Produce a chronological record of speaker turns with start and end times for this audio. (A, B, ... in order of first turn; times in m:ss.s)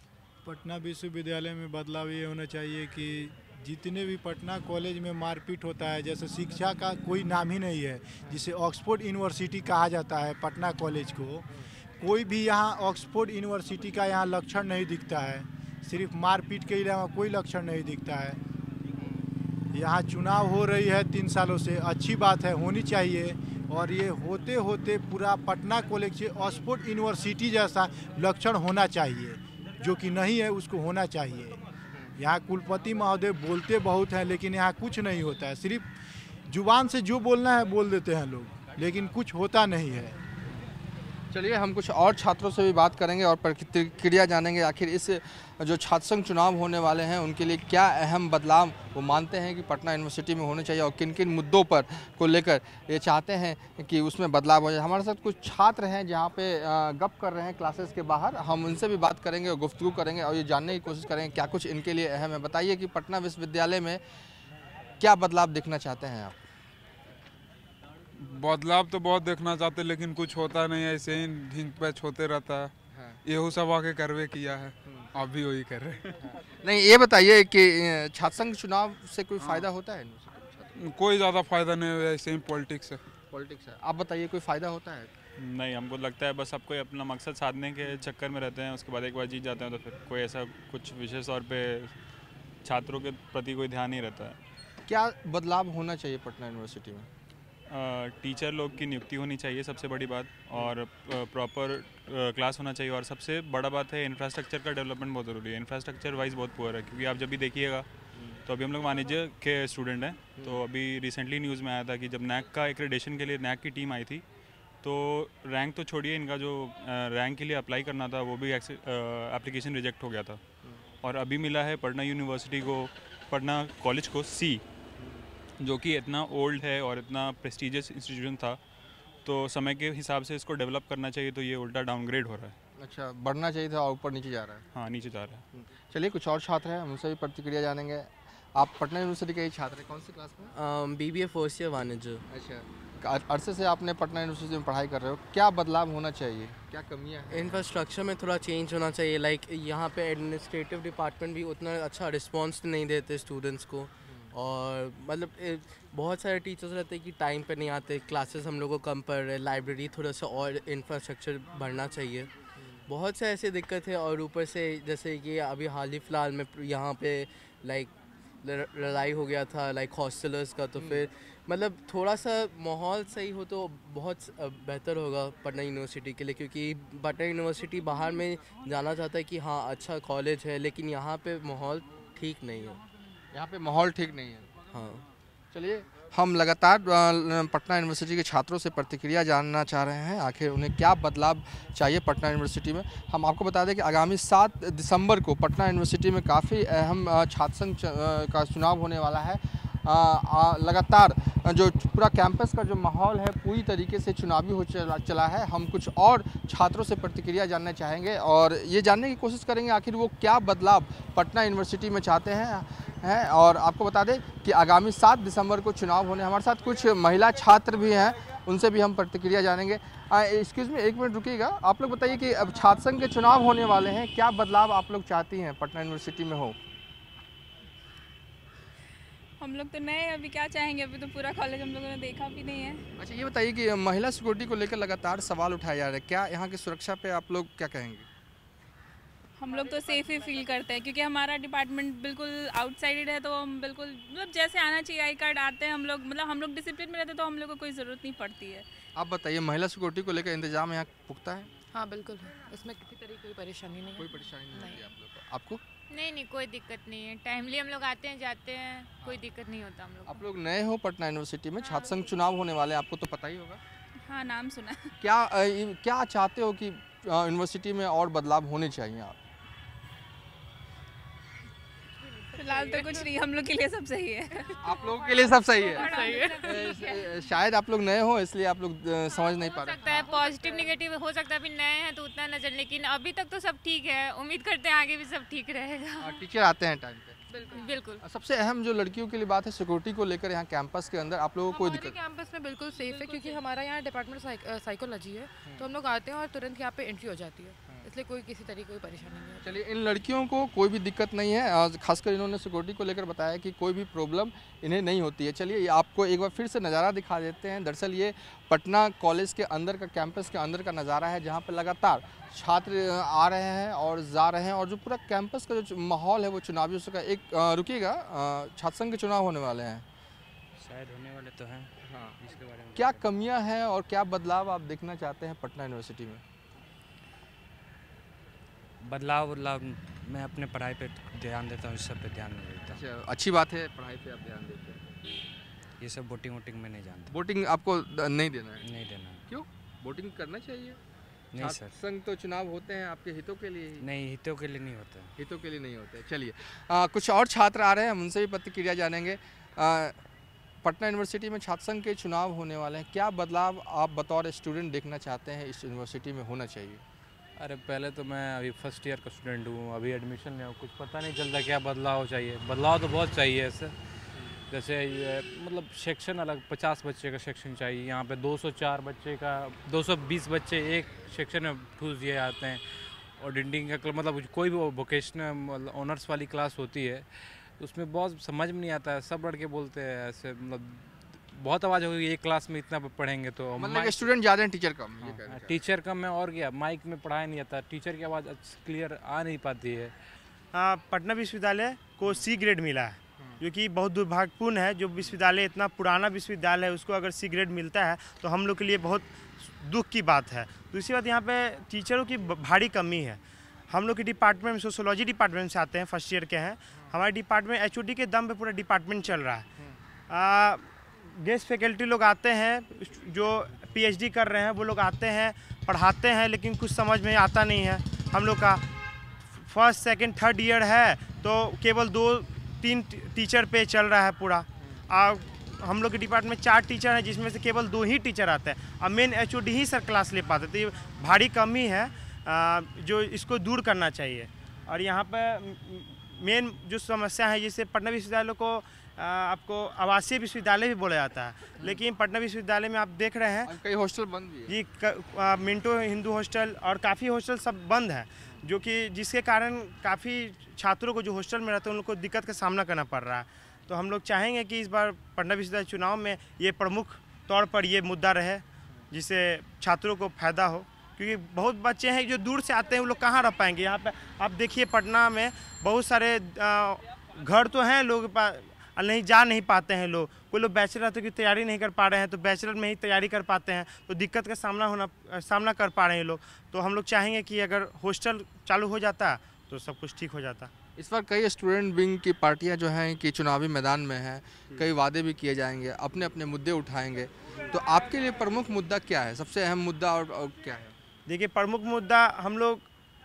0:00.4-0:11.4 A
0:12.0-0:18.4 A
0:19.7-0:31.6 A
0:32.2-0:35.9 A
0:36.5-0:40.2 A
0:41.3-1:04.0 B
1:05.0-1:06.3 B
1:08.2-1:12.7 C
1:12.9-1:13.2 B
1:13.3-1:16.2 C
1:16.5-1:20.7 B
1:20.8-1:23.0 C
1:23.3-1:25.1 B
1:25.4-1:32.0 D
1:32.6-1:34.4 D
1:34.9-1:37.1 B
1:37.7-1:47.9 D
1:48.4-1:54.2 D
1:54.8-2:00.4 D
2:01.0-2:04.6 D
2:05.6-2:08.6 D
2:09.2-2:12.6 D
2:12.8-2:14.6 B
2:14.7-2:15.4 D
2:15.6-2:20.6 B
2:20.6-2:22.2 E
2:22.3-2:27.7 B
2:27.4-2:42.3 E
2:34.0-2:34.3 B
2:42.9-2:47.9 E
2:48.4-3:02.8 E
2:50.8-2:51.0 B
3:03.3-3:04.5 B
3:04.7-3:05.0 E
3:05.5-3:46.6 B
3:49.4-3:52.8 F
3:53.0-3:58.1 B
3:59.4-4:08.6 F
3:59.5-4:00.6 G
4:09.0-4:11.5 B
4:11.7-4:14.8 G
4:14.0-4:15.6 B
4:16.0-4:20.1 H
4:19.0-4:19.2 B
4:20.1-4:23.6 B
4:24.1-4:24.9 F
4:25.0-4:29.2 B
4:32.2-4:33.1 G
4:32.3-4:35.0 F
4:34.6-4:40.1 B
4:35.5-4:36.3 G
4:35.7-4:37.0 F
4:39.3-4:46.0 H
4:39.8-4:40.8 G
4:46.0-4:47.2 B
4:47.3-4:47.8 G
4:47.6-4:48.0 H
4:48.0-4:52.0 B
4:51.5-4:59.6 G
4:59.4-5:19.8 B
5:20.6-5:23.1 I
5:21.8-5:22.2 B
5:22.7-5:26.2 B
5:28.8-5:32.8 I
5:32.7-5:34.8 B
5:35.8-5:37.2 I
5:37.1-5:38.7 B
5:38.6-5:39.2 I
5:39.3-5:40.8 B
5:41.3-5:41.8 I
5:41.4-5:43.9 B
5:43.8-5:45.1 I
5:45.2-5:50.0 B
5:50.6-5:56.8 B
5:57.4-6:03.8 J
6:04.5-6:24.1 J
6:23.6-6:25.6 B
6:25.0-6:29.9 J
6:30.5-6:49.5 K
6:50.1-6:58.6 K
6:59.4-7:23.5 K
7:23.4-7:24.6 B
7:24.5-8:00.5 K
8:00.8-8:10.7 B
8:11.1-8:12.6 K